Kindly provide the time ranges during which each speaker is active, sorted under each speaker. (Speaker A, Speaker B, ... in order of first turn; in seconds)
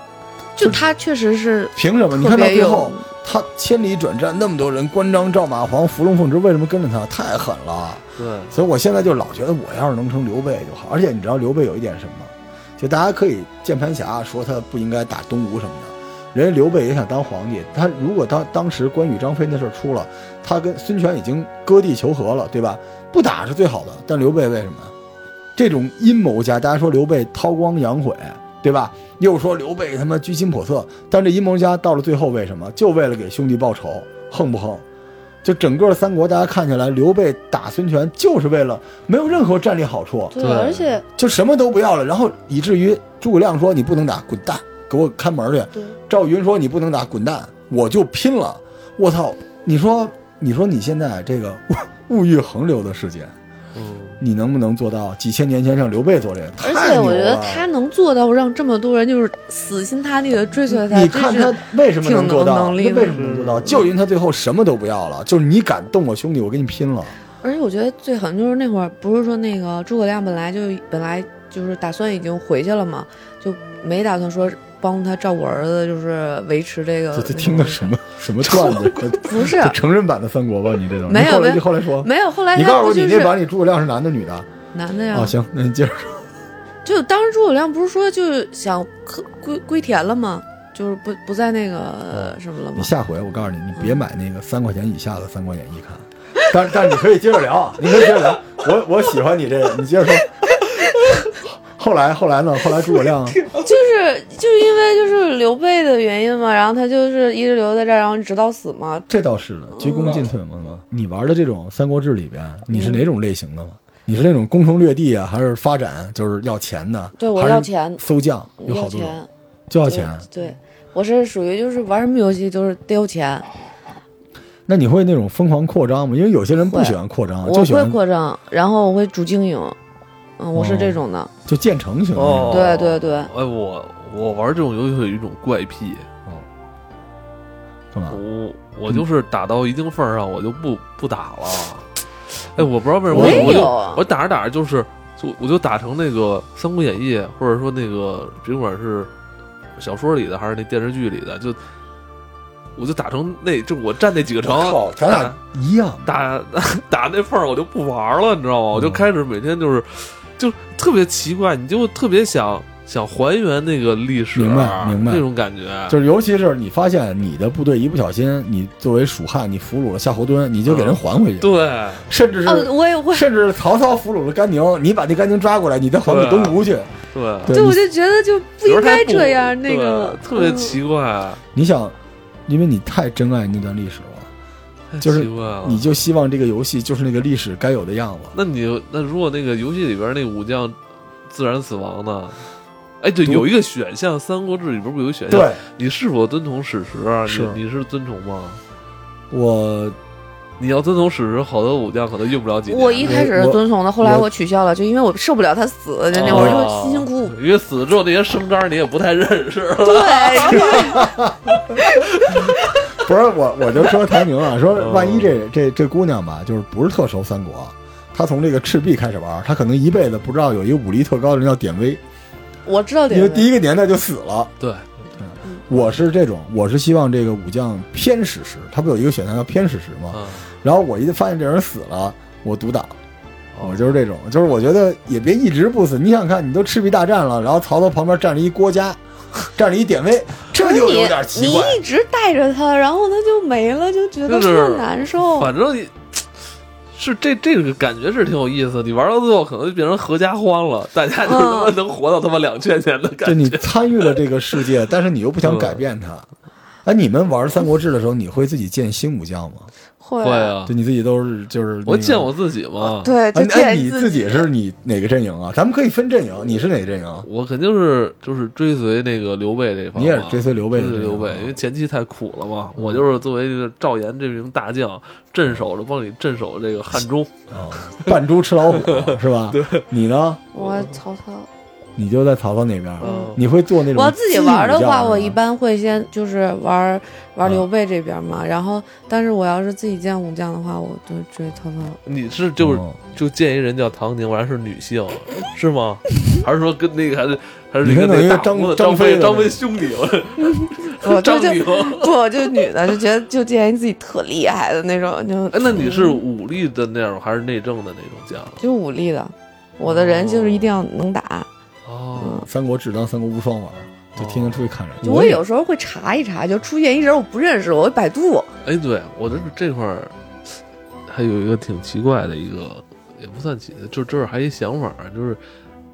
Speaker A: 0.6-3.1, 40.3-41.0, 56.6-63.2, 67.4-77.9, 79.1-79.8, 81.1-83.3, 84.7-85.3, 86.8-92.9, 93.8-94.0, 103.5-109.1, 109.8-110.3, 112.7-113.0, 117.2-118.0, 118.6-119.3, 119.8-123.5, 126.6-129.8, 130.4-131.3, 132.5-133.3, 143.1-144.1, 172.4-173.3, 177.5-180.8, 202.7-207.4, 209.8-211.1, 211.8-212.5, 222.7-223.5, 240.5-245.5, 251.2-251.8, 260.0-260.6, 262.8-264.5, 280.5-281.5, 283.0-283.4, 283.9-292.0, 300.4-306.2, 308.6-311.5, 312.2-312.5, 315.0-318.5
Speaker B: 1.8-24.9, 25.6-34.9, 35.4-40.4, 41.1-53.4, 54.2-57.7, 60.7-67.2, 77.1-84.5, 85.1-86.2, 92.1-100.4, 101.7-103.5, 109.1-120.3, 124.7-128.0, 130.5-132.7, 137.9-138.2, 143.1-143.7, 154.4-156.1, 158.7-159.0, 164.3-165.2, 165.9-171.5, 172.1-176.9, 177.4-177.8, 181.5-184.3, 185.0-188.4, 195.3-195.6, 197.3-197.6, 199.3-200.0, 203.0-204.3, 206.3-206.6, 210.7-211.4, 212.5-222.0, 223.1-224.5, 225.2-232.9, 233.6-241.8, 253.2-256.3, 256.9-259.7, 260.7-262.3, 263.3-267.3, 269.9-271.6, 272.8-273.1, 277.5-280.4, 282.0-285.4, 292.6-293.0, 297.8-299.6, 312.5-315.4
Speaker C: 8.2-8.5, 40.4-40.9, 53.8-54.2, 63.0-63.8, 132.2-136.1, 138.1-149.1, 149.8-151.6, 152.8-155.4, 156.1-166.0, 170.7-172.1, 176.1-176.6, 177.1-177.6, 178.6-181.4, 184.9-185.9, 188.3-192.5, 193.0-198.6, 200.6-203.2, 206.1-212.6, 214.7-215.3, 224.6-224.9, 230.1-230.5, 233.5-233.9, 244.3-246.2, 246.9-254.7, 255.4-255.8, 260.2-260.7, 261.9-263.1, 267.2-278.2, 278.7-279.9, 280.6-281.0, 283.0-283.4, 292.1-302.6, 305.5-308.6, 309.8-310.7, 311.9-312.5, 314.2-314.7, 318.6-320.1, 321.1-325.4